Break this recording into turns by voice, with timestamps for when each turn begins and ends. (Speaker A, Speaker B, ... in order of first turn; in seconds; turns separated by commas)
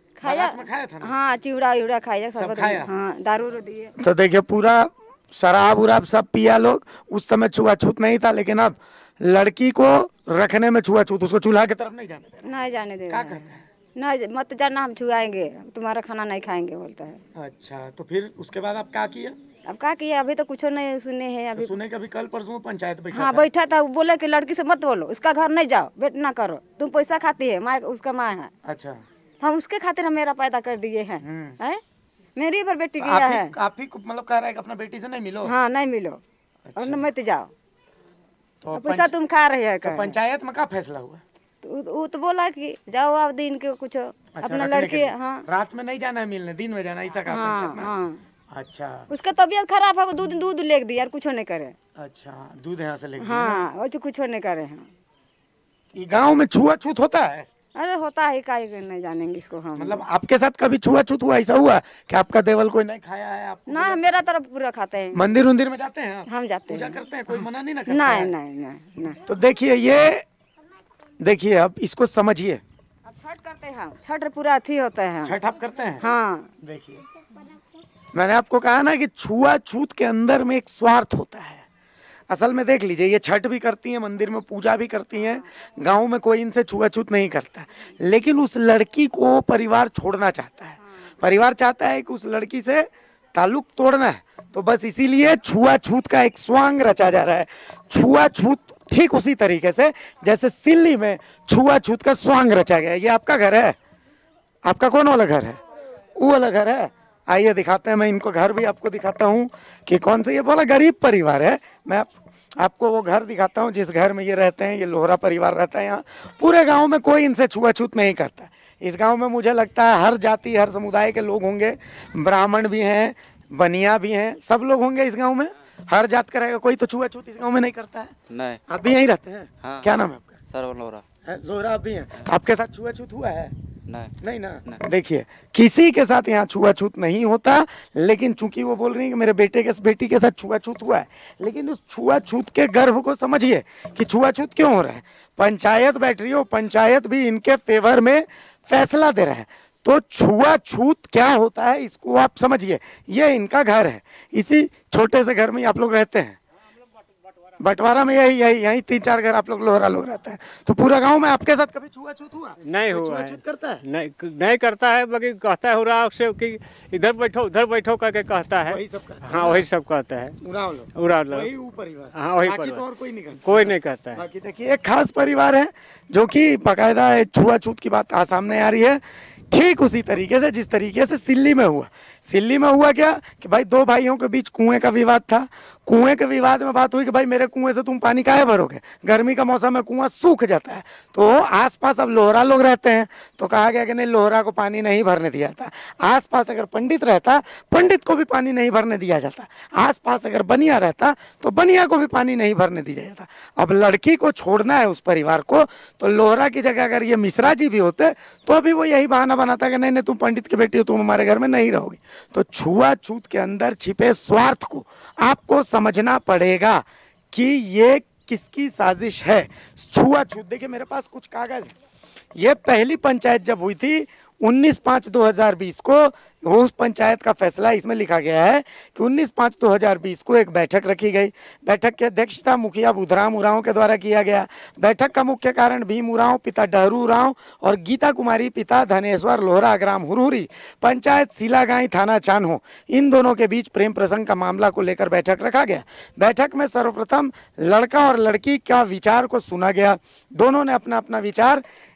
Speaker A: 0.2-3.9, Speaker B: 0.2-1.1, Speaker B: 2.4-2.9, Speaker B: 4.0-12.5, Speaker A: 12.4-17.2, Speaker B: 13.1-13.7, Speaker B: 17.3-19.4, Speaker A: 19.6-21.7, Speaker B: 21.5-23.5, Speaker A: 23.1-28.5, Speaker B: 28.6-29.0, Speaker A: 29.4-31.8, Speaker B: 31.2-31.6, Speaker A: 32.4-33.5, Speaker B: 33.0-35.5, Speaker A: 35.4-36.2, Speaker B: 36.7-37.0, Speaker A: 36.8-37.5, Speaker B: 38.6-39.1, Speaker A: 38.7-40.1, Speaker B: 39.8-41.2, Speaker A: 41.6-45.5, Speaker B: 44.3-47.9, Speaker A: 47.3-48.2, Speaker B: 48.5-49.1, Speaker A: 49.1-51.8, Speaker B: 52.0-53.7, Speaker A: 53.2-54.9, Speaker B: 55.9-57.5, Speaker A: 57.8-60.0, Speaker B: 59.8-64.0, Speaker A: 63.7-65.2, Speaker B: 65.1-68.3, Speaker A: 66.3-67.0, Speaker A: 67.9-69.2, Speaker B: 69.3-70.2, Speaker B: 71.2-72.6, Speaker A: 73.0-75.3, Speaker B: 75.2-76.0, Speaker A: 76.0-76.5, Speaker B: 76.6-77.0, Speaker B: 78.1-81.6, Speaker B: 82.3-103.8, Speaker B: 104.6-105.6, Speaker B: 106.1-128.2, Speaker C: 128.3-128.6, Speaker B: 128.7-130.4, Speaker C: 129.6-129.9, Speaker C: 130.5-131.0, Speaker B: 131.2-133.5, Speaker C: 133.9-134.8, Speaker B: 134.2-156.4, Speaker B: 157.6-163.8, Speaker D: 162.7-170.4, Speaker B: 168.7-169.7, Speaker B: 170.4-221.7, Speaker D: 170.9-171.5, Speaker D: 172.1-172.8, Speaker D: 173.4-174.2, Speaker B: 222.3-251.6